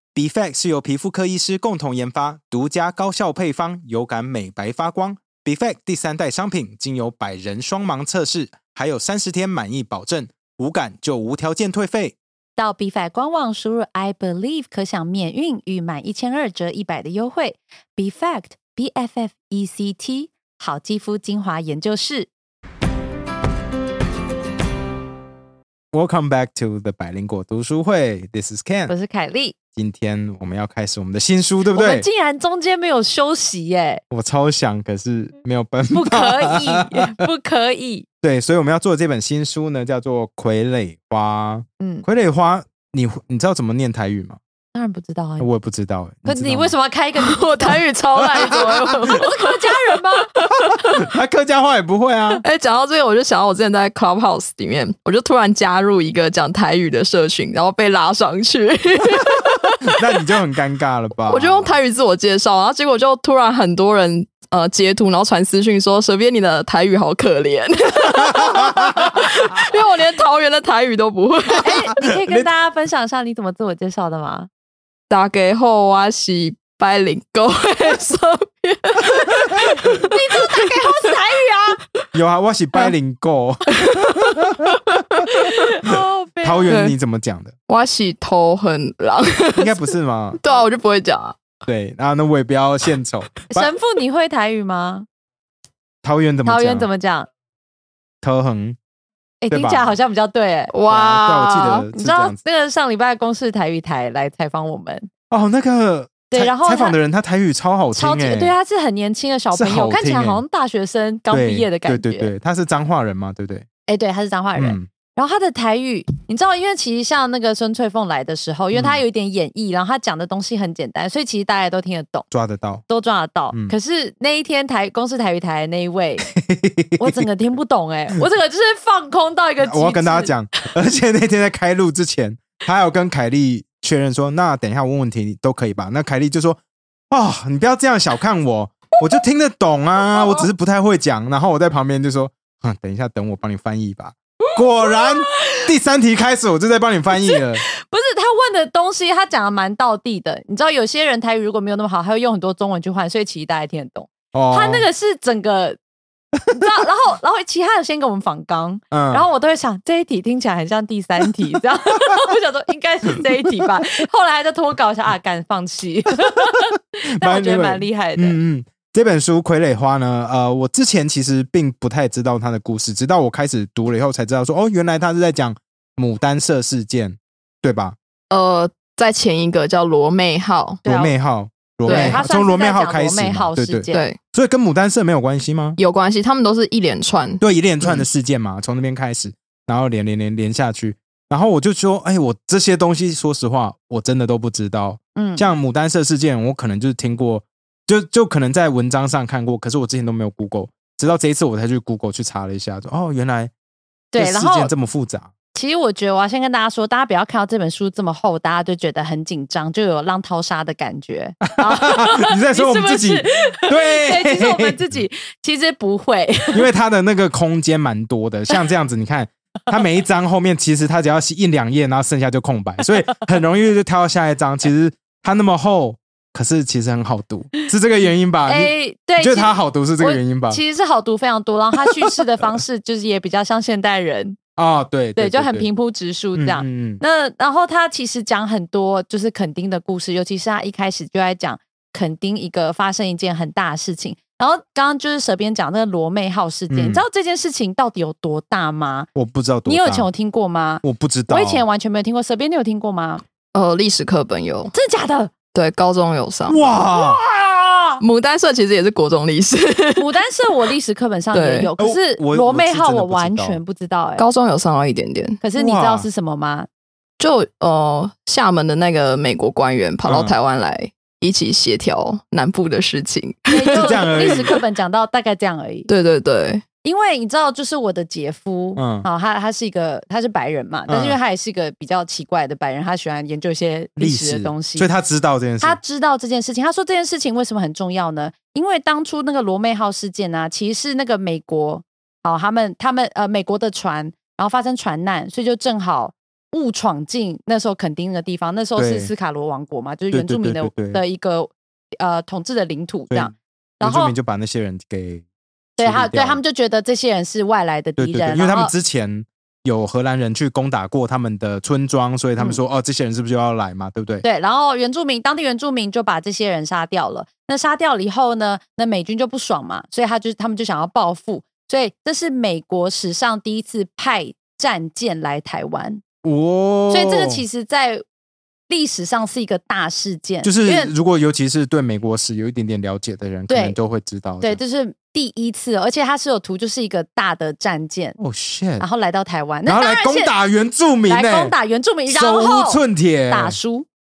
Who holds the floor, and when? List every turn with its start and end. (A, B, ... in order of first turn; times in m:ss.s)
0:00.1-0:12.2 A
0:12.6-0:22.3 B
0:25.9-0:28.9 A
0:28.9-0:29.6 B
0:29.8-0:32.0 A
0:31.7-0:34.0 B
0:34.1-0:37.1 A
0:35.9-0:38.0 B
0:38.2-0:44.4 A
0:41.8-0:42.0 B
0:44.7-0:45.5 B
0:45.4-0:46.7 A
0:46.2-0:50.3 B
0:47.2-0:51.0 C
0:48.3-0:48.6 A
0:50.9-0:52.4 A
0:52.4-1:00.2 C
0:59.9-1:01.7 A
1:01.3-1:11.9 C
1:08.3-1:09.3 A
1:11.6-1:12.5 A
1:11.6-1:14.5 B
1:15.1-1:21.1 C
1:20.0-1:21.8 B
1:22.1-1:25.2 A
1:23.7-1:25.5 C
1:25.4-1:26.8 B
1:25.8-1:27.5 A
1:26.7-1:26.9 C
1:27.7-1:29.8 C
1:29.5-1:30.4 A
1:30.4-1:31.4 C
1:31.6-1:33.7 A
1:33.5-1:35.1 B
1:36.0-1:36.9 A
1:36.4-1:37.3 B
1:38.2-1:38.8 A
1:39.4-1:40.7 B
1:39.5-1:39.9 A
1:40.7-1:41.9 C
1:40.9-1:42.4 A
1:41.9-1:45.1 B
1:45.3-1:48.5 A
1:46.3-1:47.0 B
1:47.9-1:52.3 B
1:49.5-1:50.4 A
1:51.3-1:53.7 A
1:53.9-2:02.3 B
1:54.6-1:54.9 A
1:58.7-1:59.0 A
2:02.3-2:02.8 A
2:02.9-2:06.3 B
2:06.3-2:07.3 A
2:07.0-2:10.3 B
2:09.6-2:27.6 A
2:24.8-2:25.6 B
2:27.3-2:35.8 B
2:34.3-2:34.8 A
2:36.5-2:48.4 B
2:38.9-2:39.2 A
2:47.2-2:58.0 A
2:58.3-3:00.8 C
3:00.8-3:01.1 B
3:00.8-3:05.8 A
3:01.8-3:04.1 B
3:01.9-3:02.2 C
3:03.9-3:04.2 C
3:05.8-3:08.0 C
3:07.4-3:23.5 A
3:15.2-3:15.5 B
3:24.1-3:24.7 B
3:24.2-3:25.3 A
3:25.5-3:36.6 B
3:31.5-3:34.8 A
3:36.5-3:50.6 A
3:48.4-3:54.4 B
3:54.6-3:55.7 A
3:55.2-4:09.1 B
3:56.3-3:57.0 A
4:06.7-4:07.0 A
4:09.1-4:10.1 A
4:09.6-4:13.2 B
4:10.8-4:11.6 A
4:13.5-4:14.7 C
4:14.7-4:15.3 B
4:15.5-4:16.6 C
4:16.5-4:17.2 A
4:16.7-4:18.0 B
4:18.0-4:20.0 C
4:20.0-4:24.2 B
4:21.3-4:21.7 C
4:21.8-4:23.6 A
4:24.2-4:25.4 C
4:25.4-4:26.7 B
4:25.6-4:26.0 A
4:27.2-4:34.5 C
4:30.0-4:30.3 A
4:33.5-4:35.9 B
4:33.7-4:34.5 A
4:35.9-4:36.6 C
4:36.8-4:44.9 B
4:38.8-4:39.0 A
4:40.9-4:41.2 A
4:44.0-4:45.8 A
4:45.6-5:04.1 B
4:58.8-4:59.1 A
5:00.1-5:01.0 A
5:03.1-5:05.2 A
5:05.8-5:06.4 A
5:05.8-5:08.7 B
5:08.0-5:14.2 A
5:14.2-5:26.0 B
5:26.2-5:27.4 A
5:26.9-5:28.0 B
5:28.7-5:30.9 B
5:30.4-5:34.6 A
5:33.5-5:33.8 B
5:34.4-5:38.2 B
5:38.2-5:38.8 A
5:38.8-5:40.3 B
5:39.6-5:41.5 A
5:41.1-5:43.9 B
5:42.1-5:43.6 A